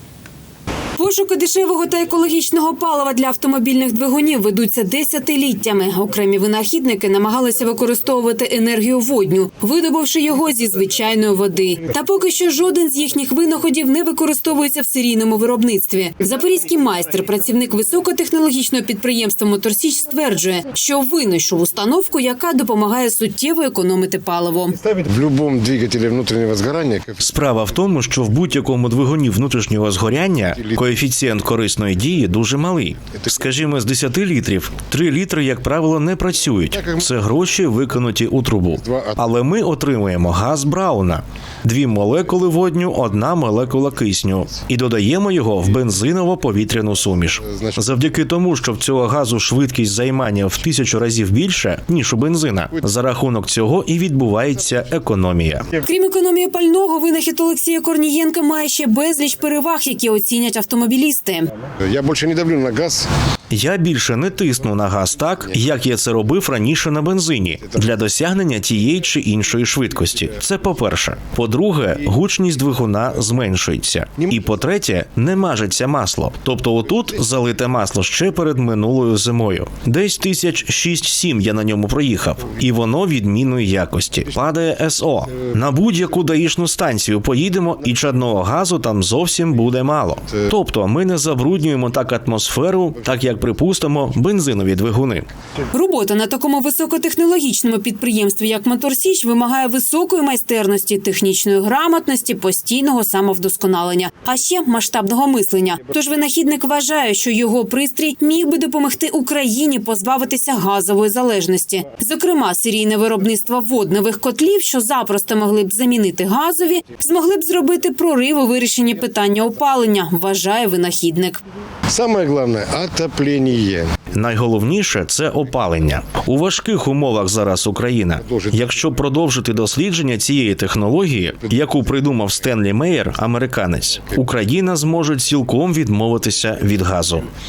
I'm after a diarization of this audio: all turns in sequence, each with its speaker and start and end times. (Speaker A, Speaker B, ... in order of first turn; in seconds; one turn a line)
Speaker A: 1.0-24.8
Speaker B: 25.0-27.8
Speaker C: 27.2-55.7
Speaker B: 30.5-30.8
Speaker B: 36.7-37.1
Speaker B: 38.8-39.2
Speaker B: 47.4-47.8
Speaker A: 55.8-61.5
Speaker B: 61.8-63.1
Speaker C: 63.5-95.3
Speaker A: 95.7-121.4
Speaker B: 121.9-124.1
Speaker C: 124.1-137.3
Speaker B: 128.2-129.2